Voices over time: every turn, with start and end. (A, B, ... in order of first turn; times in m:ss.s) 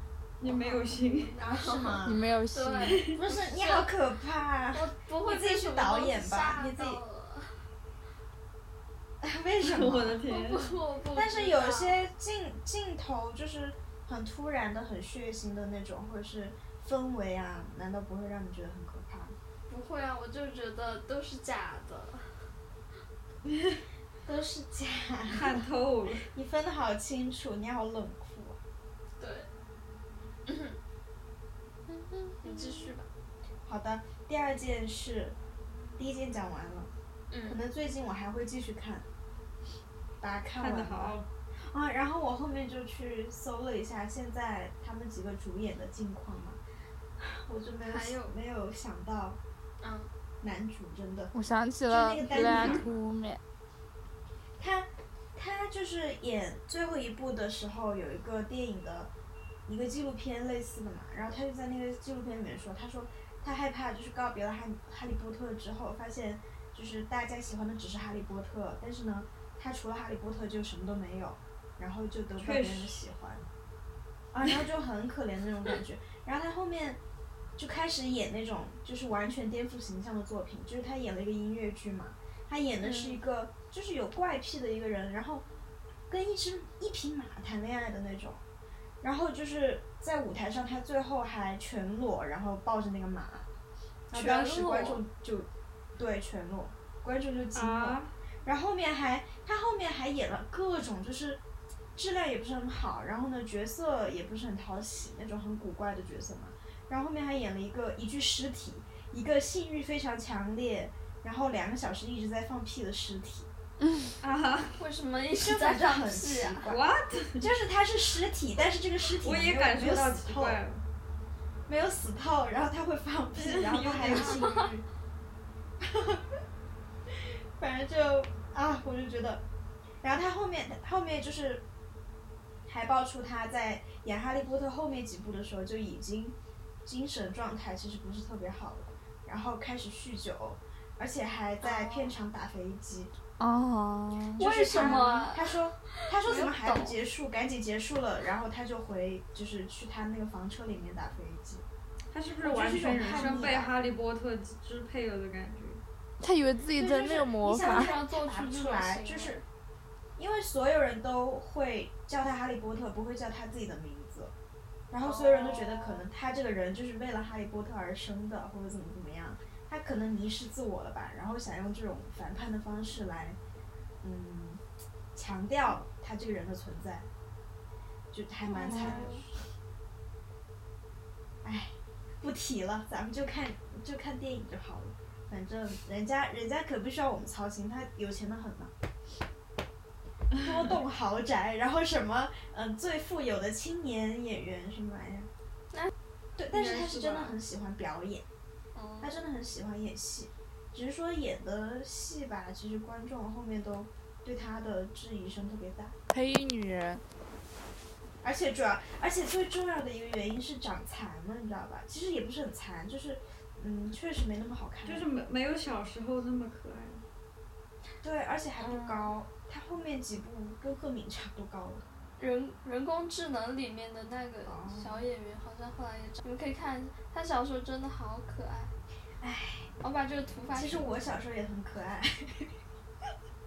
0:00.4-0:01.3 A
0:00.4-0:03.9 B
0:01.4-0:02.2 C
0:02.0-0:03.1 D
0:03.2-0:07.0 C
0:04.8-0:07.6 B
0:09.2-0:10.2 C
0:09.6-0:10.8 A
0:10.3-0:12.0 B
0:11.1-0:19.4 C
0:19.7-0:22.4 B
0:24.3-0:25.6 C
0:25.3-0:26.3 A
0:26.3-0:28.6 C
0:29.2-0:29.5 B
0:30.5-0:30.8 B
0:31.9-0:33.1 B
0:33.6-0:35.4 C
0:36.0-0:36.9 C
0:37.3-0:37.6 B
0:37.5-0:39.1 C
0:40.2-0:41.2 C
0:40.6-0:41.3 A
0:41.7-0:46.6 C
0:47.2-0:49.4 C
0:47.9-0:48.3 B
0:49.8-0:50.1 B
0:50.4-0:51.3 C
0:51.3-0:53.4 D
0:51.9-0:52.9 C
0:54.6-0:59.1 C
0:59.7-1:13.4 C
1:12.4-1:13.0 A
1:14.3-1:17.0 C
1:17.6-1:25.4 C
1:22.8-1:23.2 B
1:26.1-1:28.4 C
1:29.0-1:33.5 C
1:34.1-1:41.4 C
1:34.1-1:35.0 A
1:37.6-1:38.1 A
1:42.0-1:53.5 C
1:54.2-1:54.8 A
1:54.8-1:56.6 B
1:55.4-1:56.8 C
1:56.7-1:57.5 A
1:57.4-2:00.6 C
1:59.2-2:00.8 A
2:01.7-2:04.9 C
2:03.3-2:04.5 A
2:04.1-2:04.6 B
2:05.8-2:06.2 C
2:07.1-2:09.4 C
2:10.0-2:11.6 C
2:12.7-2:23.1 C
2:21.6-2:22.2 B
2:23.4-2:24.4 D
2:24.4-2:25.6 B
2:24.4-2:31.6 C
2:26.1-2:27.0 B
2:32.1-2:35.8 A
2:32.4-2:33.7 C
2:33.2-2:33.5 B
2:36.2-2:38.0 D
2:36.8-2:39.4 C
2:37.6-2:39.4 B
2:40.2-2:44.3 C
2:44.9-2:53.4 C
2:45.0-2:46.0 B
2:54.0-2:54.6 C
2:55.1-2:57.1 C
2:58.1-2:59.3 C
2:58.4-2:59.2 B
3:01.4-3:08.7 C
3:10.4-3:15.3 C
3:16.4-3:18.3 C
3:16.5-3:17.4 B
3:18.8-3:19.2 B
3:19.0-3:26.0 C
3:26.1-3:27.0 D
3:28.2-3:35.1 C
3:34.8-3:37.0 A
3:38.0-3:41.8 C
3:38.6-3:39.1 B
3:42.2-3:48.7 B
3:44.4-3:45.0 C
3:49.2-3:49.7 C
3:49.8-3:50.9 B
3:50.5-3:52.5 C